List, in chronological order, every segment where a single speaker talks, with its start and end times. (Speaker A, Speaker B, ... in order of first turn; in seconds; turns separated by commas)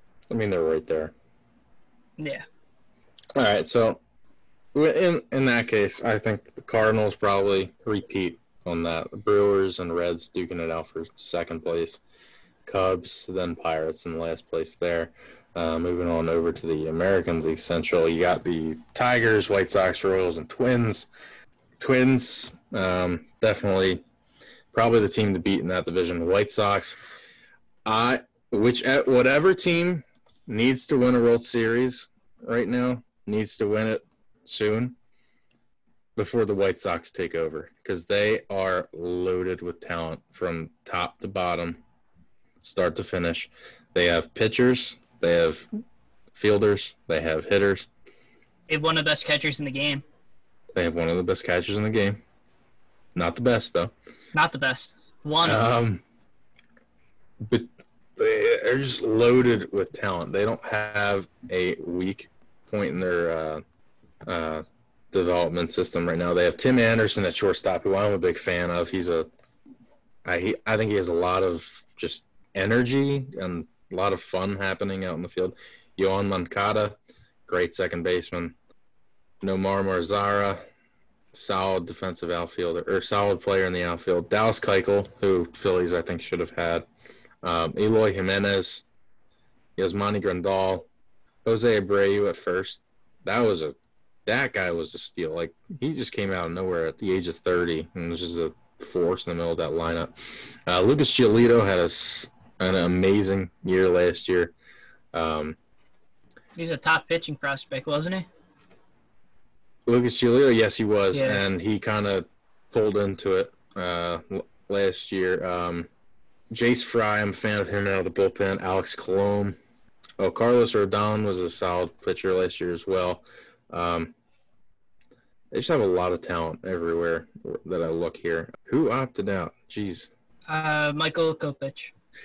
Speaker A: 0.3-1.1, Speaker B: 2.2-2.4, Speaker A: 3.3-4.0, Speaker A: 4.7-12.0, Speaker A: 12.7-21.1, Speaker A: 21.8-24.0, Speaker A: 24.7-27.0, Speaker A: 27.8-35.0, Speaker A: 36.1-41.8, Speaker A: 42.6-45.7, Speaker A: 46.3-47.9, Speaker B: 48.7-50.0, Speaker A: 50.7-52.2, Speaker A: 53.1-53.9, Speaker B: 54.3-55.6, Speaker A: 55.4-56.0, Speaker A: 57.4-63.6, Speaker A: 64.2-69.3, Speaker A: 70.2-78.5, Speaker A: 79.4-80.6, Speaker A: 81.3-86.8, Speaker A: 87.4-88.8, Speaker A: 89.8-90.9, Speaker A: 91.4-104.5, Speaker A: 105.1-105.6, Speaker B: 106.5-108.3, Speaker A: 109.8-115.9, Speaker B: 111.1-111.4, Speaker A: 116.5-119.6, Speaker A: 120.2-124.1, Speaker A: 125.5-130.1, Speaker B: 130.5-131.9